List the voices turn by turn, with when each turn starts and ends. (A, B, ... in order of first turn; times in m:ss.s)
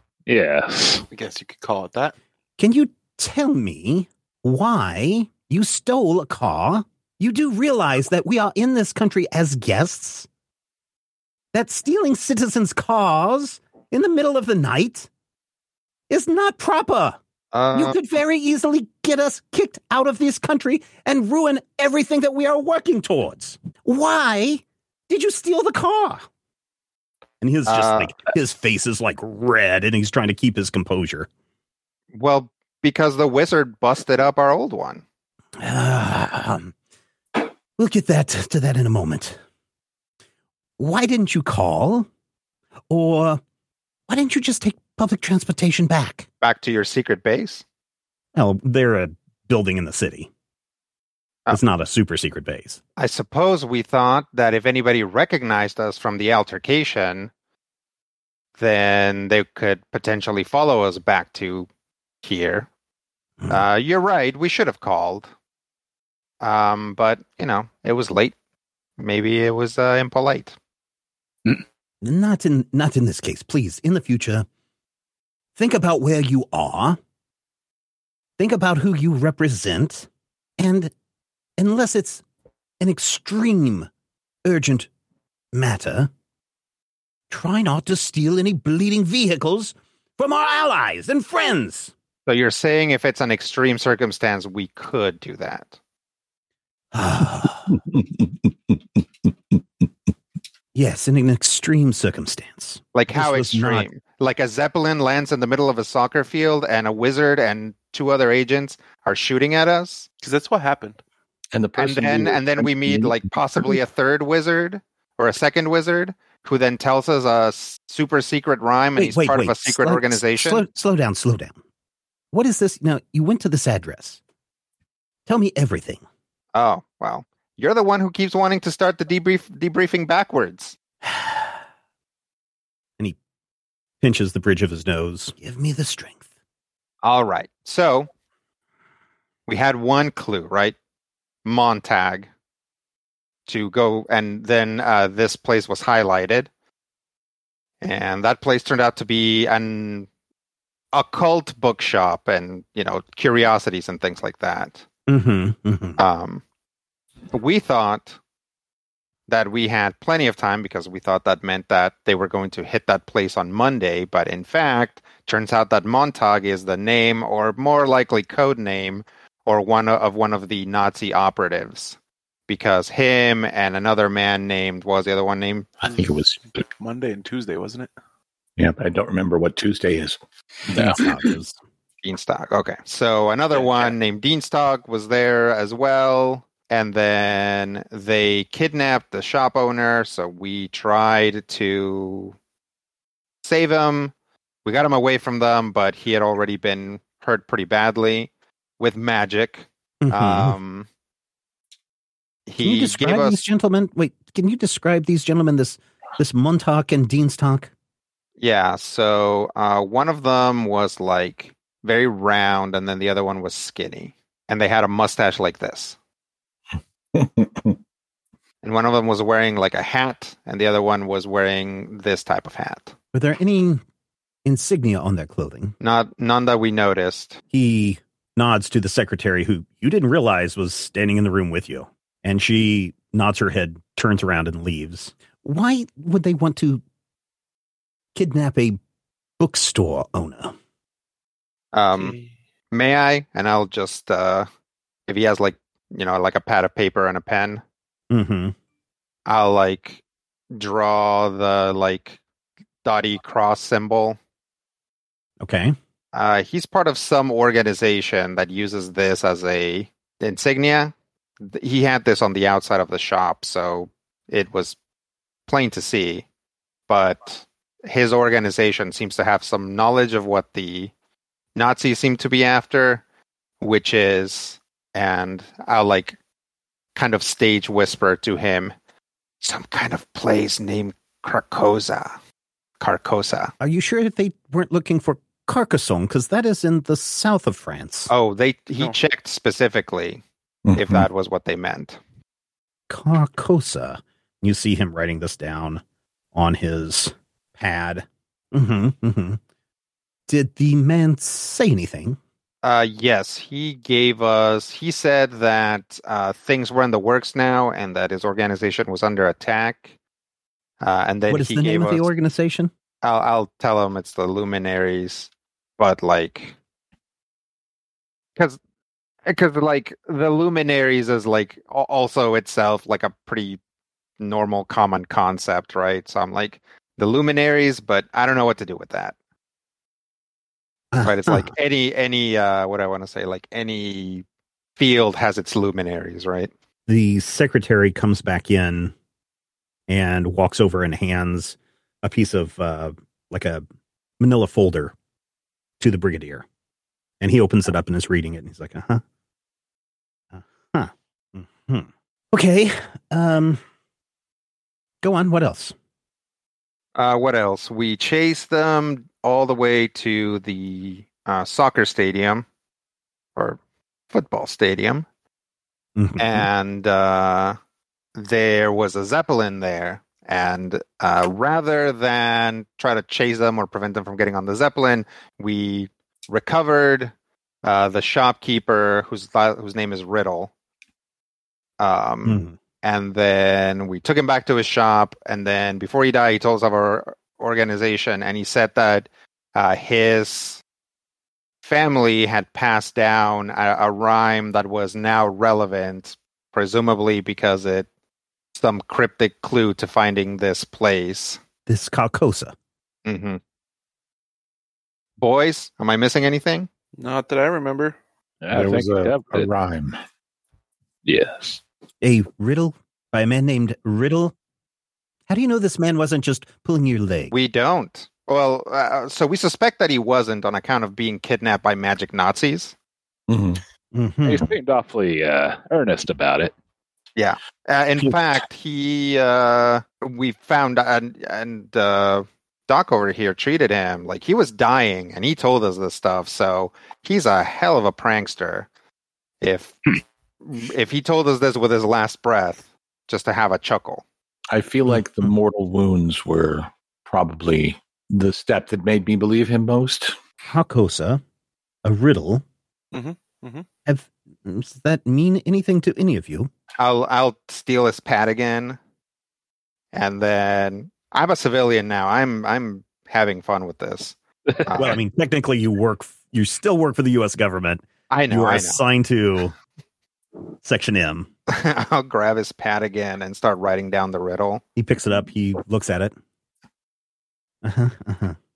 0:00.3-0:01.0 A
0:01.1-0:02.1 B
0:02.6-0:10.3 C
0:11.5-0:15.1 C
0:16.1-0:17.2 C
0:17.5-0:17.9 D
0:17.7-0:26.3 C
0:27.4-0:31.3 C
0:27.7-0:28.1 D
0:32.1-0:35.0 D
0:35.6-0:36.7 C
0:37.4-0:39.4 C
0:40.8-0:42.1 C
0:42.9-0:43.4 C
0:44.1-0:46.3 C
0:46.4-0:47.6 D
0:48.3-0:50.3 C
0:51.5-0:52.8 C
0:53.0-0:57.3 D
0:58.6-1:01.7 D
1:02.2-1:02.7 D
1:03.5-1:05.3 D
1:06.4-1:08.3 D
1:09.0-1:10.6 D
1:12.0-1:14.4 C
1:15.6-1:17.0 C
1:18.4-1:20.9 C
1:21.6-1:22.2 C
1:22.8-1:23.9 C
1:24.4-1:24.9 C
1:25.5-1:26.1 C
1:27.3-1:31.9 C
1:32.2-1:35.8 D
1:36.9-1:37.8 C
1:37.9-1:38.7 E
1:40.7-1:43.9 C
1:42.9-1:50.1 D
1:50.2-1:51.0 B
1:51.5-1:53.8 E
1:51.8-2:00.6 D
1:59.0-2:01.6 C
2:02.3-2:04.2 C
2:05.3-2:06.0 C
2:06.5-2:10.8 D
2:11.0-2:11.5 C
2:14.0-2:16.2 C
2:17.0-2:18.1 D
2:19.5-2:20.8 D
2:21.4-2:22.3 D
2:23.5-2:26.5 D
2:27.8-2:30.1 D
2:30.9-2:34.8 D
2:35.1-2:36.0 C
2:36.0-2:36.4 D
2:37.3-2:38.2 D
2:39.3-2:52.0 D
2:52.5-2:55.7 D
2:55.8-2:56.4 E
2:56.6-2:57.9 B
2:58.6-3:00.2 E
3:00.7-3:01.2 E
3:00.7-3:01.6 C
3:02.0-3:12.3 D
3:03.5-3:03.9 B
3:13.4-3:14.1 D
3:14.6-3:20.9 D
3:20.0-3:20.6 C
3:22.5-3:23.4 D
3:22.6-3:27.7 C
3:28.4-3:36.0 D
3:37.1-3:37.8 E
3:38.6-3:42.9 D
3:43.1-3:43.8 C
3:44.4-3:45.7 C
3:45.8-3:47.4 D
3:47.5-3:56.8 C
3:58.1-3:58.8 C
3:59.4-4:00.5 C
4:01.7-4:02.2 D
4:01.9-4:02.3 B
4:02.7-4:04.5 D
4:05.1-4:07.6 D
4:08.1-4:08.5 C
4:09.3-4:10.0 D
4:10.5-4:12.2 D
4:12.8-4:14.2 D
4:15.4-4:15.8 C
4:16.1-4:20.9 D
4:21.4-4:24.8 D
4:25.5-4:26.2 D
4:26.9-4:30.9 D
4:31.6-4:33.0 D
4:33.6-4:36.2 D
4:36.9-4:38.7 D
4:39.4-4:42.1 D
4:42.8-4:43.5 D
4:43.6-4:48.1 C
4:48.1-4:50.2 D
4:50.6-4:51.1 E
4:50.7-4:52.0 D
4:52.9-4:55.8 C
4:56.3-4:59.4 C
5:00.3-5:02.2 C
5:02.6-5:09.9 D
5:10.8-5:12.1 D
5:11.3-5:12.7 C
5:13.0-5:16.6 D
5:19.3-5:23.6 D
5:24.2-5:29.1 D
5:30.9-5:31.5 C
5:31.0-5:34.2 D
5:34.8-5:36.5 D
5:36.9-5:38.9 C
5:39.9-5:43.6 C
5:44.2-5:44.9 C
5:45.8-5:46.4 C
5:47.2-5:49.0 C
5:50.3-5:53.6 C
5:55.0-5:55.7 C
5:57.0-6:02.4 D
6:04.1-6:05.0 D
6:06.0-6:06.5 C
6:06.2-6:07.6 D
6:08.2-6:17.1 D
6:17.6-6:20.5 D
6:21.8-6:30.6 D
6:22.2-6:22.6 C
6:31.6-6:37.9 D
6:38.5-6:41.4 D
6:41.7-6:42.5 C
6:43.0-6:43.4 D
6:45.2-6:46.7 D
6:47.0-6:48.0 B
6:48.4-6:49.5 A
6:48.5-6:50.0 E
6:51.0-6:51.6 A
6:52.0-6:54.3 C
6:55.3-6:57.3 C
6:57.3-7:02.7 D
7:03.3-7:03.6 E
7:03.9-7:04.6 C
7:04.2-7:06.5 A
7:07.2-7:18.7 D
7:19.4-7:24.0 D
7:24.5-7:30.2 E
7:30.5-7:31.2 C
7:31.8-7:32.4 C
7:32.9-7:33.6 B
7:33.8-7:36.5 C
7:36.8-7:38.8 D
7:39.9-7:45.0 D
7:44.7-7:49.5 C
7:48.1-7:48.8 D
7:50.6-7:51.3 C
7:51.5-7:54.6 D
7:54.8-7:56.1 C
7:57.6-7:58.4 C